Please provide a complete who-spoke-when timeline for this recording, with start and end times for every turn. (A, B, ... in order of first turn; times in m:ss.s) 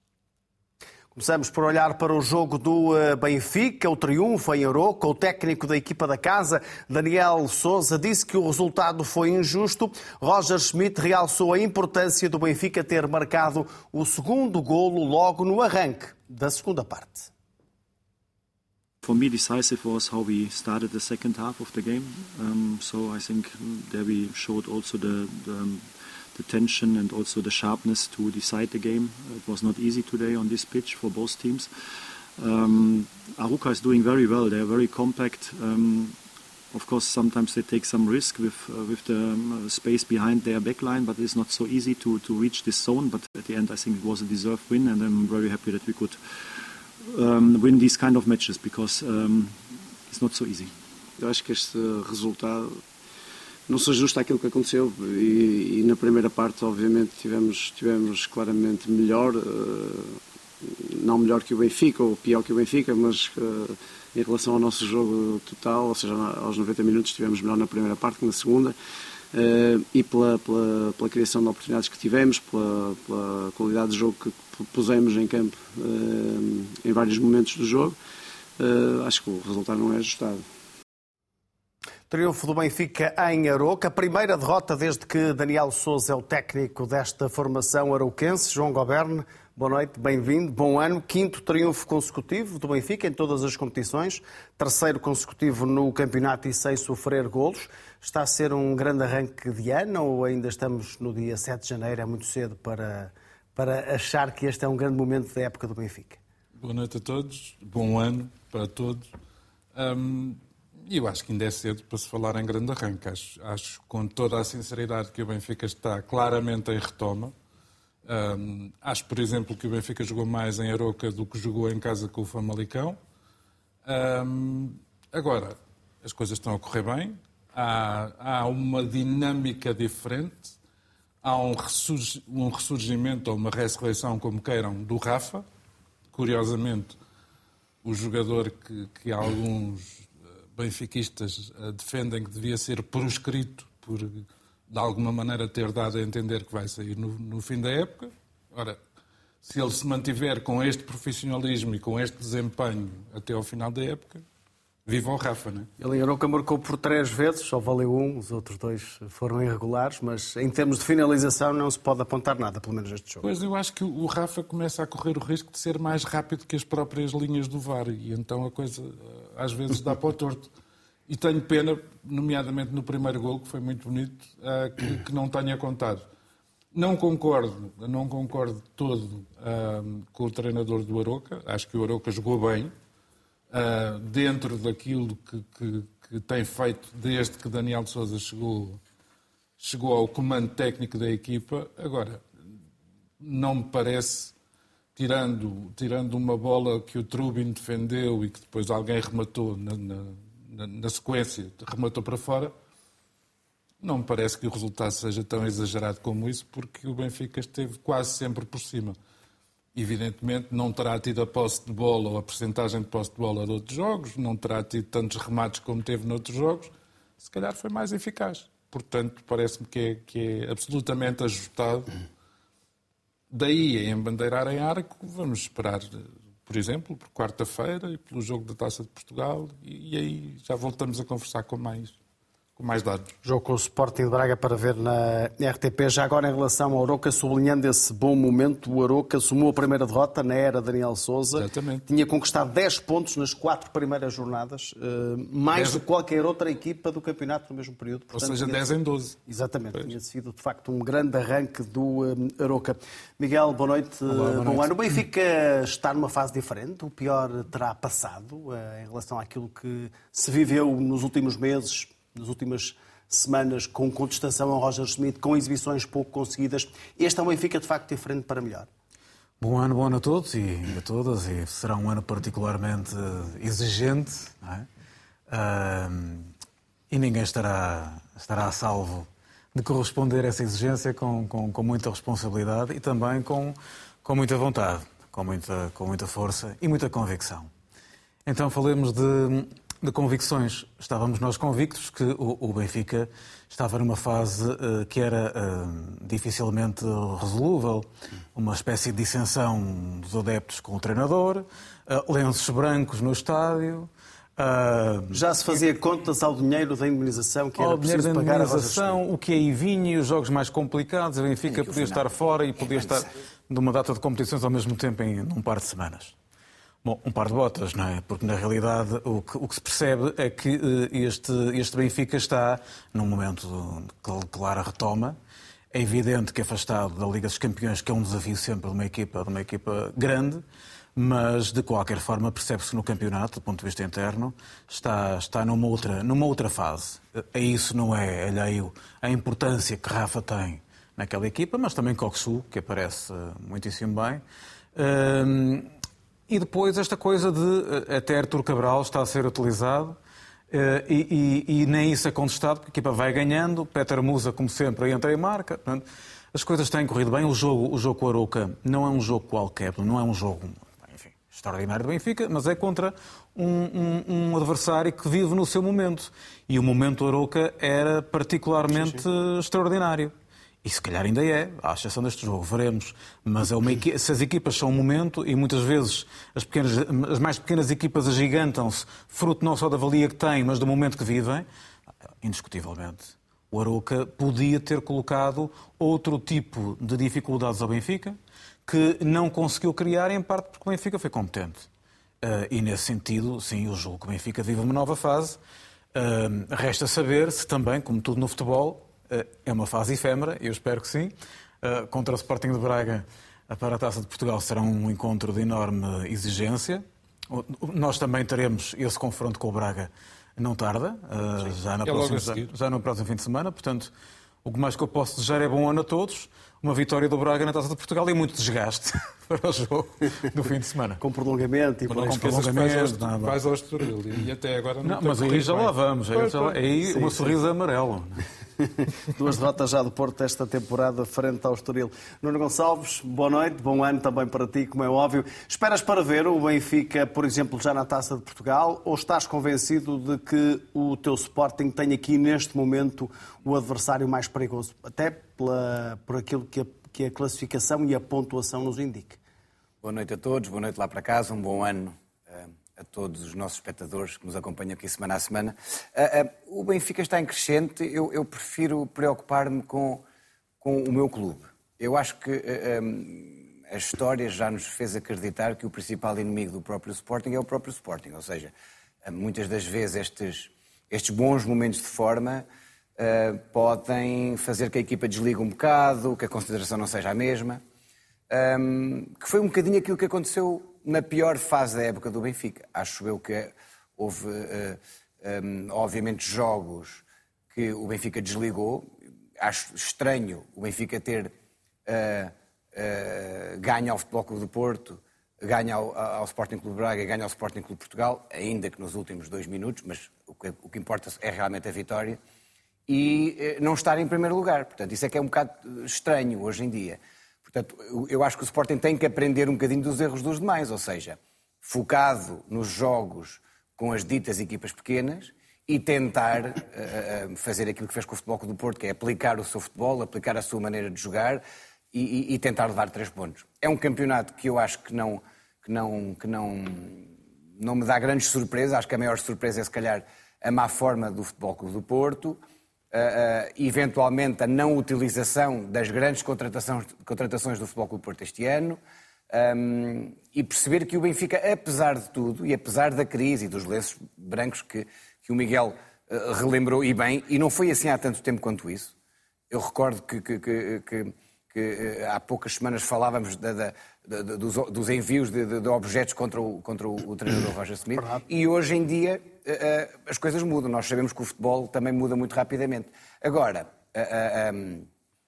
0:01.1-0:17.3 A
0:19.0-0:31.7 B
0:32.4-0:36.2 B
0:36.7-0:49.6 B
0:50.1-0:50.7 B
0:51.2-0:52.8 C
0:53.7-1:08.7 C
1:09.3-1:18.0 C
1:18.6-1:20.4 C
1:22.1-1:46.2 A
1:46.6-1:49.1 D
1:49.7-1:57.3 D
1:58.0-2:03.0 D
2:03.8-2:10.5 D
2:11.2-2:15.4 D
2:16.1-2:17.0 D
2:17.8-2:28.8 D
2:29.4-2:34.2 D
2:34.8-2:35.7 D
2:35.8-2:43.2 A
2:43.2-2:50.5 D
2:51.1-2:56.0 D
2:56.7-3:02.7 D
3:03.5-3:08.8 D
3:09.6-3:12.2 D
3:13.2-3:14.3 D
3:14.9-3:22.5 D
3:23.8-3:29.0 D
3:29.7-3:41.9 D
3:43.3-3:51.9 D
3:52.6-3:53.1 D
3:53.2-4:08.6 A
4:01.3-4:01.9 D
4:05.5-4:05.8 D
4:08.1-4:09.2 D
4:09.3-4:28.7 A
4:14.1-4:14.8 E
4:29.4-4:34.7 E
4:35.3-4:36.3 E
4:36.9-4:47.5 E
4:48.2-5:05.2 E
5:05.1-5:09.0 A
5:07.6-5:16.1 E
5:11.5-5:12.1 F
5:12.6-5:13.1 F
5:16.8-5:25.2 E
5:25.7-5:30.4 E
5:30.9-5:44.2 E
5:44.7-5:45.7 E
5:46.3-5:50.0 E
5:50.5-6:21.4 E
6:22.2-6:31.7 E
6:32.2-6:35.4 E
6:35.9-6:53.9 E
6:51.8-6:52.5 D
6:54.4-7:01.0 E
7:01.0-7:02.4 A
7:01.9-7:06.6 D
7:02.0-7:03.4 E
7:04.8-7:08.2 E
7:06.9-7:07.1 A
7:09.1-7:29.2 A
7:29.8-7:40.0 F
7:40.6-7:48.5 F
7:49.0-7:52.4 F
7:53.0-7:57.6 F
7:58.3-8:11.3 F
8:11.8-8:22.2 F
8:22.9-8:47.1 F
8:47.6-8:52.4 F
8:52.9-8:58.8 F
8:59.3-9:08.9 F
9:09.5-9:24.9 F
9:18.0-9:18.2 A